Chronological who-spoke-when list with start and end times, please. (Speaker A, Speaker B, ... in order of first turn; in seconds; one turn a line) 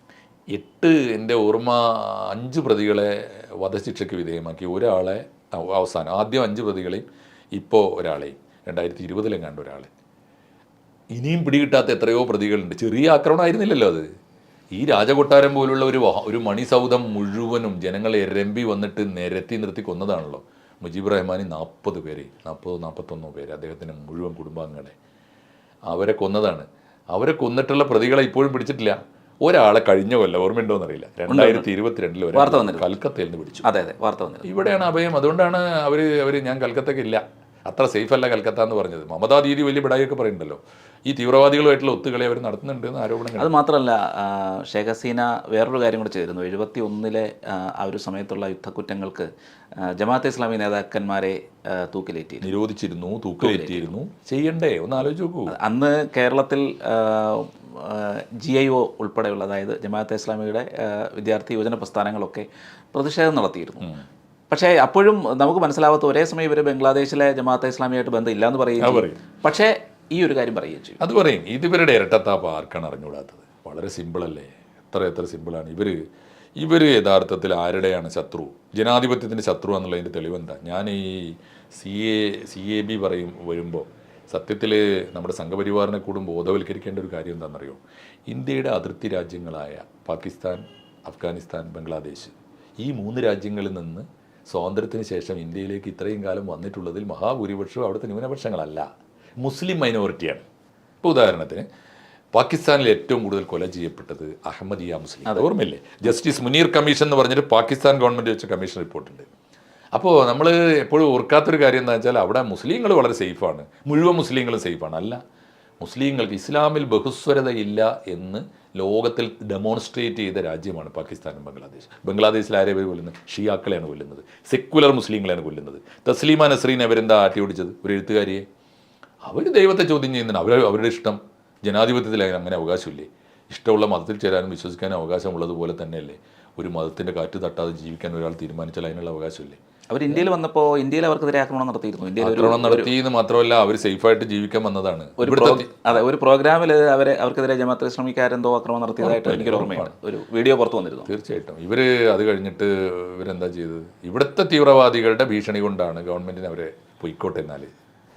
Speaker A: 0.5-9.9
Speaker A: 11.1-14.0
Speaker A: 14.7-24.9
Speaker A: 25.9-33.7
Speaker B: 31.3-31.7
Speaker B: 32.3-32.9
Speaker B: 33.6-34.5
Speaker A: 34.4-43.5
Speaker B: 43.4-52.5
Speaker A: 52.4-55.6
Speaker B: 53.4-53.9
Speaker B: 55.5-63.9
Speaker B: 64.5-71.0
Speaker A: 68.8-69.2
Speaker A: 71.0-76.0
Speaker A: 76.6-98.9
Speaker A: 99.4-100.4
Speaker A: 101.0-101.6
Speaker A: 102.3-109.3
Speaker A: 109.9-115.2
Speaker A: 115.8-128.4
Speaker A: 129.2-139.6
Speaker B: 139.9-142.9
Speaker A: 142.2-146.0
Speaker B: 145.2-151.1
Speaker A: 149.0-149.9
Speaker A: 151.1-157.7